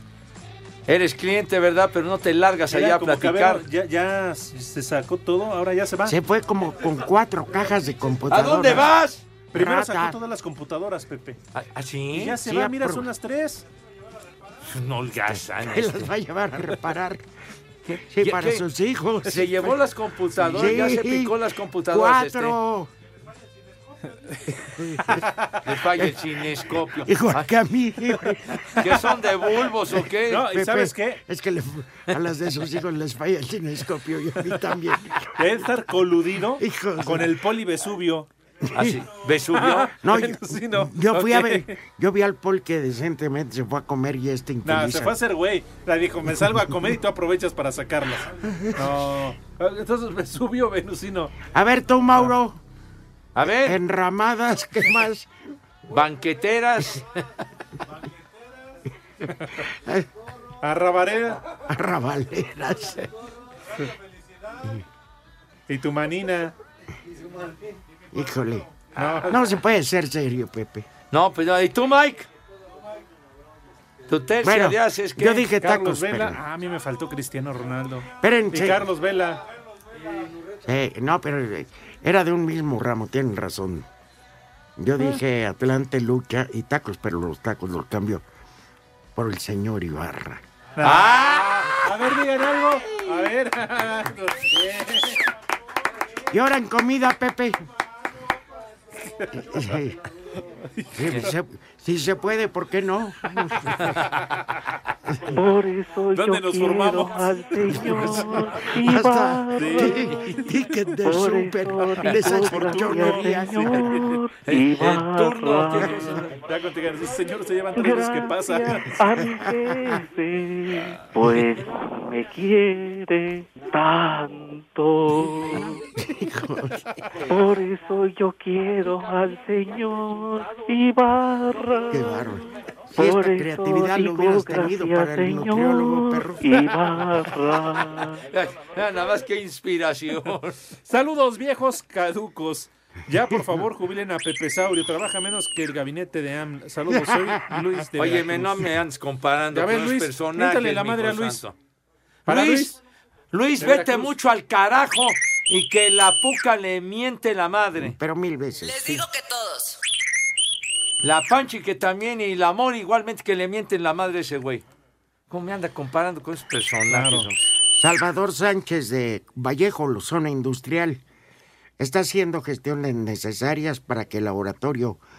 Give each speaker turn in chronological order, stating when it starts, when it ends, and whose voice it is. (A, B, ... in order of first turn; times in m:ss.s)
0:00.9-0:03.6 A
0:02.7-0:06.2 B
0:06.1-0:08.9 C
0:08.3-0:09.2 A
0:09.5-0:11.4 B
0:09.5-0:10.2 C
0:11.5-0:12.4 A
0:12.1-0:13.6 B
0:12.4-0:13.1 C
0:14.7-0:16.1 A
0:15.3-0:17.2 C
0:17.9-0:18.6 A
0:18.1-0:19.8 C
0:19.2-0:22.6 A
0:20.4-0:21.4 C
0:21.9-0:22.9 C
0:24.8-0:25.2 C
0:25.2-0:25.6 B
0:25.6-0:27.4 A
0:27.0-0:28.6 C
0:28.8-0:30.5 A
0:30.3-0:31.2 B
0:30.4-0:35.3 C
0:35.4-0:38.3 B
0:36.6-0:37.3 C
0:38.7-0:39.0 C
0:38.8-0:39.9 A
0:39.6-0:41.8 B
0:40.0-0:45.2 C
0:44.6-0:51.4 B
0:51.5-0:52.6 C
0:53.4-0:53.8 A
0:53.4-0:55.3 C
0:55.9-0:57.1 A
0:59.7-1:00.1 C
1:00.6-1:01.4 B
1:01.7-1:03.0 C
1:05.7-1:06.6 B
1:08.1-1:10.9 C
1:09.0-1:09.4 B
1:11.1-1:12.3 A
1:14.1-1:15.5 A
1:14.4-1:16.4 C
1:15.6-1:19.4 B
1:18.2-1:18.8 C
1:20.6-1:23.9 C
1:24.8-1:28.2 C
1:29.2-1:30.4 C
1:30.8-1:35.2 B
1:30.8-1:31.6 A
1:36.3-1:37.6 C
1:39.1-1:39.5 B
1:39.4-1:40.0 C
1:40.8-1:41.3 B
1:40.9-1:43.8 C
1:45.4-1:50.0 D
1:46.1-1:48.6 B
1:47.8-1:53.9 C
1:49.6-1:50.2 B
1:51.0-1:56.1 D
1:52.1-1:54.2 B
1:54.4-1:56.1 A
1:55.8-1:59.0 B
1:57.8-2:05.8 D
1:59.2-1:59.9 C
2:05.5-2:06.9 C
2:07.3-2:12.2 D
2:11.9-2:16.4 C
2:13.0-2:18.2 D
2:18.2-2:20.6 A
2:20.9-2:28.7 B
2:26.9-2:27.6 C
2:28.0-2:31.6 A
2:29.5-2:31.4 B
2:32.3-2:32.7 A
2:32.3-2:32.8 B
2:33.3-2:38.0 A
2:33.6-2:34.1 B
2:37.8-2:39.0 C
2:41.0-2:44.6 A
2:45.3-2:47.5 A
2:46.9-2:47.3 B
2:47.7-2:51.0 C
2:51.8-2:55.0 C